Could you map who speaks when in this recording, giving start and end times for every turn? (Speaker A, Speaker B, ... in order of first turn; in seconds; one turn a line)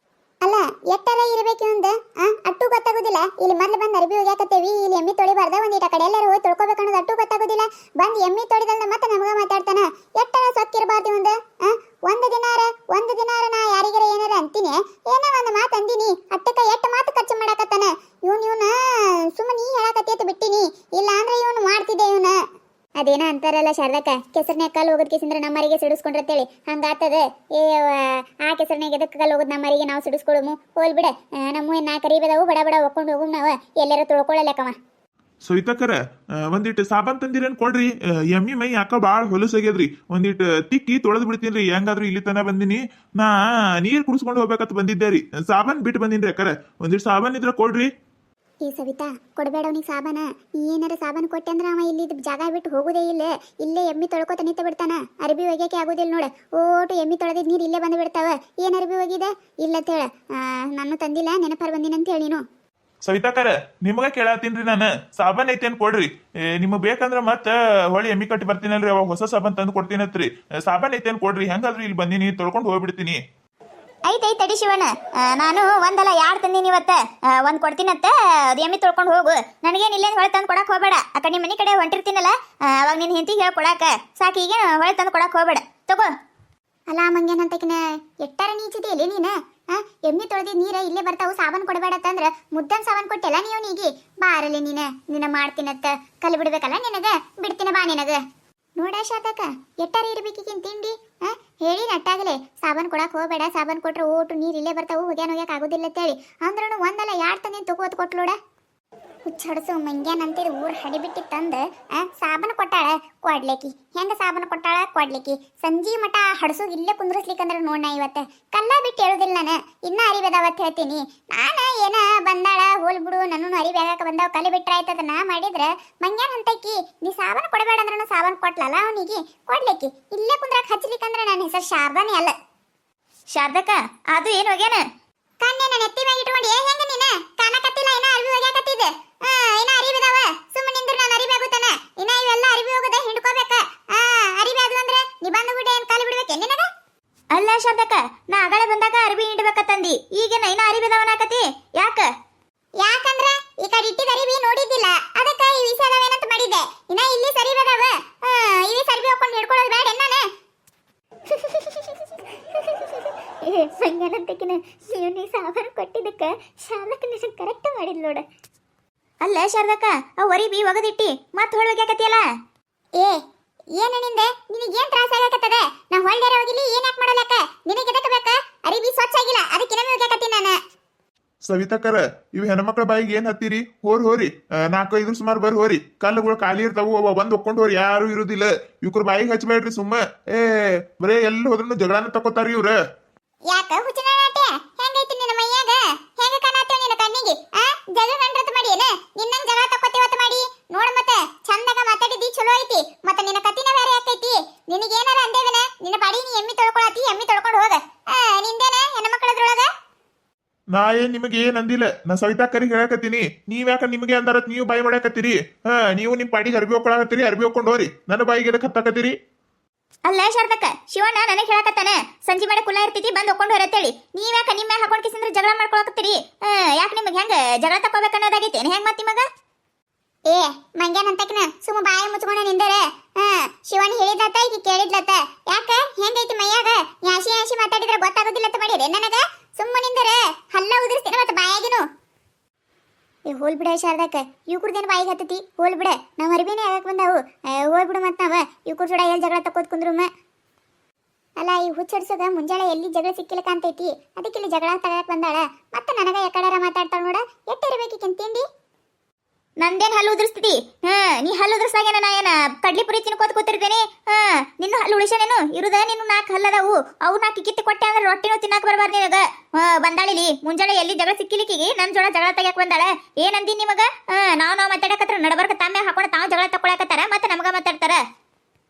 Speaker A: 0.4-22.4
Speaker A: 23.0-34.8
Speaker B: 35.4-36.0
Speaker B: 36.5-47.9
Speaker A: 48.6-62.4
Speaker B: 63.0-73.2
Speaker C: 74.0-86.1
Speaker A: 86.9-98.2
Speaker A: 98.8-108.3
Speaker A: 109.2-132.3
Speaker C: 133.3-134.8
Speaker A: 135.4-146.7
Speaker C: 147.3-152.1
Speaker A: 152.8-160.3
Speaker C: 163.5-168.2
Speaker C: 169.2-172.3
Speaker A: 173.8-180.6
Speaker B: 181.4-192.8
Speaker A: 193.5-209.7
Speaker B: 210.7-219.1
Speaker C: 220.1-229.2
Speaker A: 230.3-241.8
Speaker A: 243.3-250.1
Speaker A: 251.4-258.4
Speaker C: 259.6-278.0